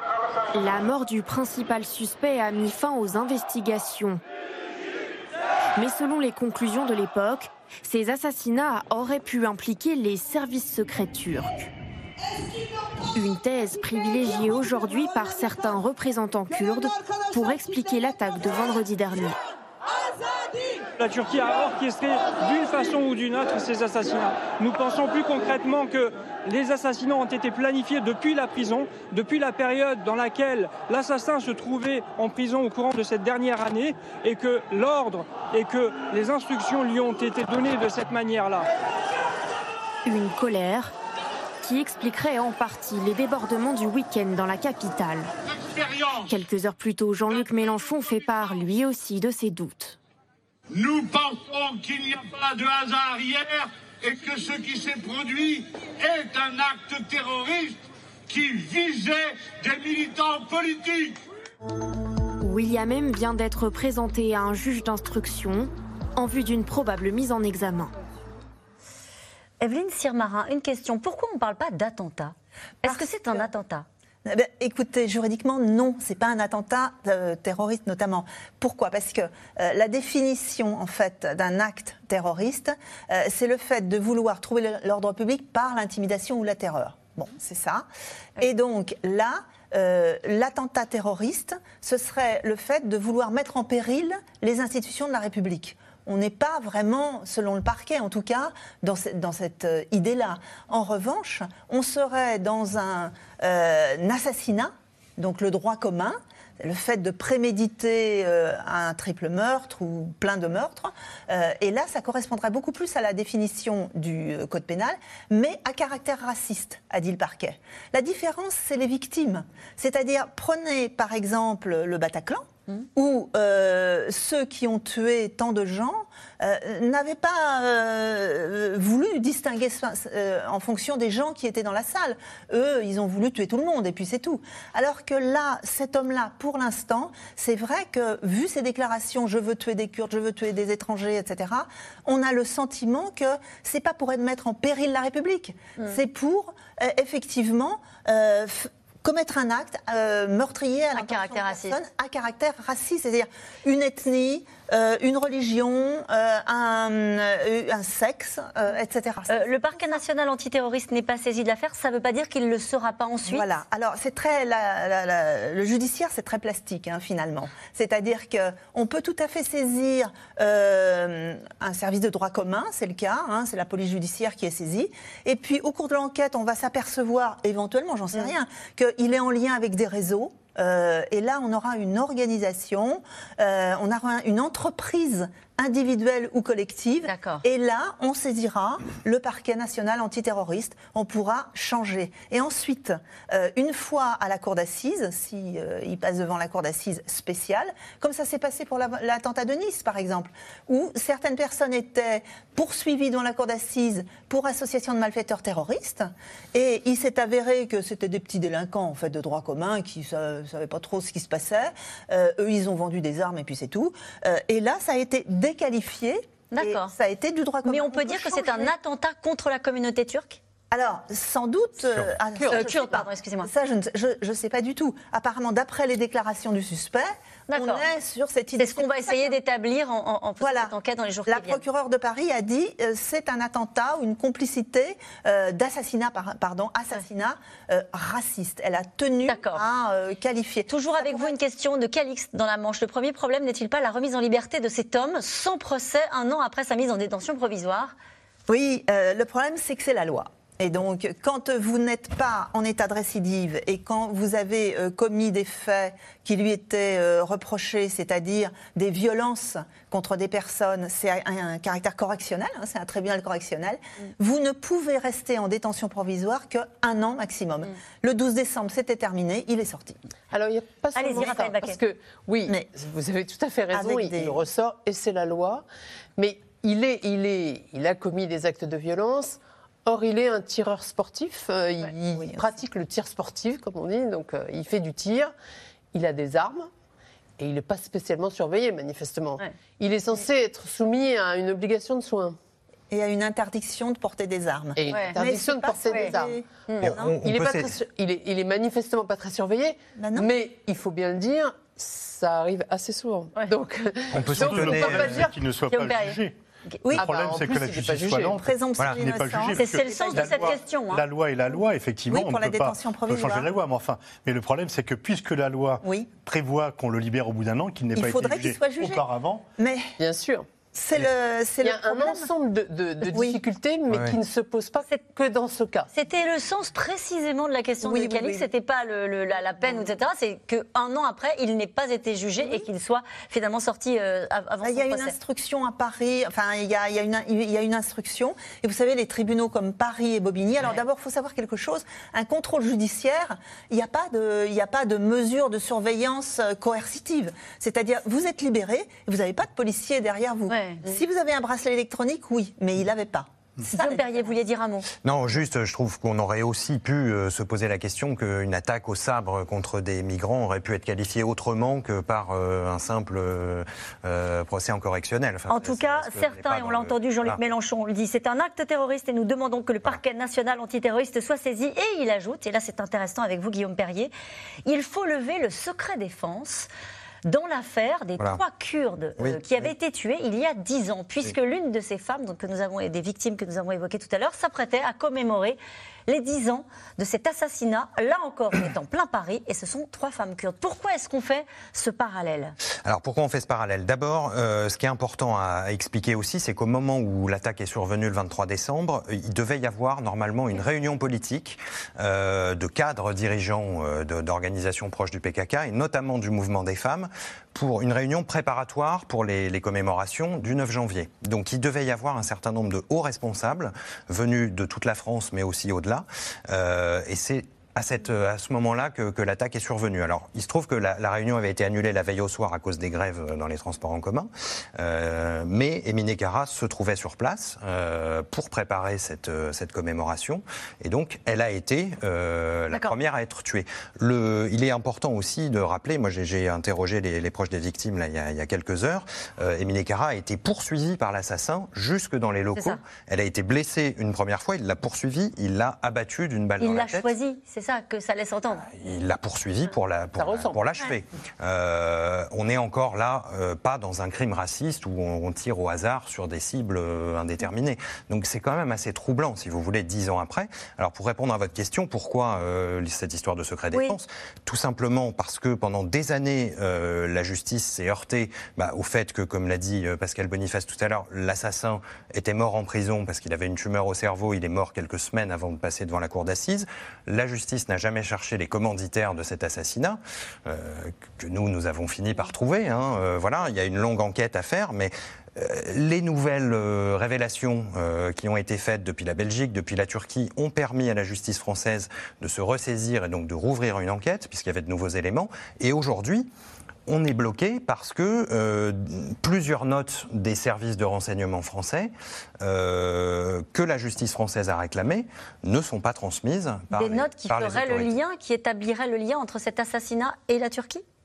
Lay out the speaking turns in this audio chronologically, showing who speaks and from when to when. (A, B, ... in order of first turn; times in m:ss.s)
0:00.5-0:04.2 A
0:05.8-0:11.6 A
0:13.1-0:19.4 A
0:21.0-0:38.7 B
0:40.0-0:40.9 A
0:41.6-0:45.3 A
0:46.1-0:50.0 A
0:50.8-0:57.7 C
1:00.0-1:00.4 C
1:02.4-1:07.9 A
1:09.6-1:13.8 D
1:12.8-1:13.5 E
1:14.2-1:27.9 E
1:28.4-2:40.0 E
2:30.9-2:31.8 D
2:39.3-2:43.4 D
2:43.2-3:38.7 E
3:07.0-3:07.4 D
3:36.5-3:36.9 D
3:37.6-3:40.4 D
3:40.7-3:49.4 E
3:42.3-3:42.6 F
3:42.5-3:43.5 D
3:47.5-3:47.8 D
3:48.6-3:51.6 D
3:50.4-3:50.7 E
3:51.3-4:01.3 E
3:59.3-3:59.6 D
4:00.7-4:07.9 D
4:08.5-4:30.0 E
4:30.3-4:35.6 F
4:31.0-4:31.8 D
4:33.7-4:34.4 E
4:36.2-4:45.3 F
4:42.1-4:42.5 E
4:45.9-4:46.7 F
4:47.4-4:52.4 F
4:52.9-4:57.2 E
4:54.8-4:56.4 F
4:56.7-4:56.9 D
4:56.8-4:57.7 G
4:57.2-5:05.4 F
5:00.0-5:00.3 E
5:04.1-5:05.3 G
5:04.1-5:06.4 H
5:05.7-5:06.2 D
5:06.9-5:08.4 F
5:06.9-5:19.4 H
5:08.2-5:10.6 E
5:09.5-5:11.0 D
5:12.1-5:13.5 E
5:15.8-5:16.1 E
5:18.0-5:19.0 E
5:19.6-5:19.9 E
5:20.0-5:20.4 F
5:20.7-5:22.3 E
5:21.6-5:25.9 F
5:23.0-5:23.4 E
5:23.9-5:24.2 G
5:25.9-5:35.2 D
5:27.8-5:28.5 E
5:32.4-5:32.6 E
5:34.6-5:54.2 E
5:50.5-5:51.0 D
5:53.7-5:54.8 D
5:55.0-6:07.4 G
6:05.5-6:14.1 D
6:14.6-6:16.7 D
6:17.2-6:32.5 D
6:19.2-6:19.7 G
6:32.8-7:27.1 G
7:22.5-7:22.8 D
7:26.6-7:28.6 D
7:28.6-8:16.3 G
7:30.2-7:30.6 F
8:16.9-8:28.0 G
8:26.7-8:30.8 D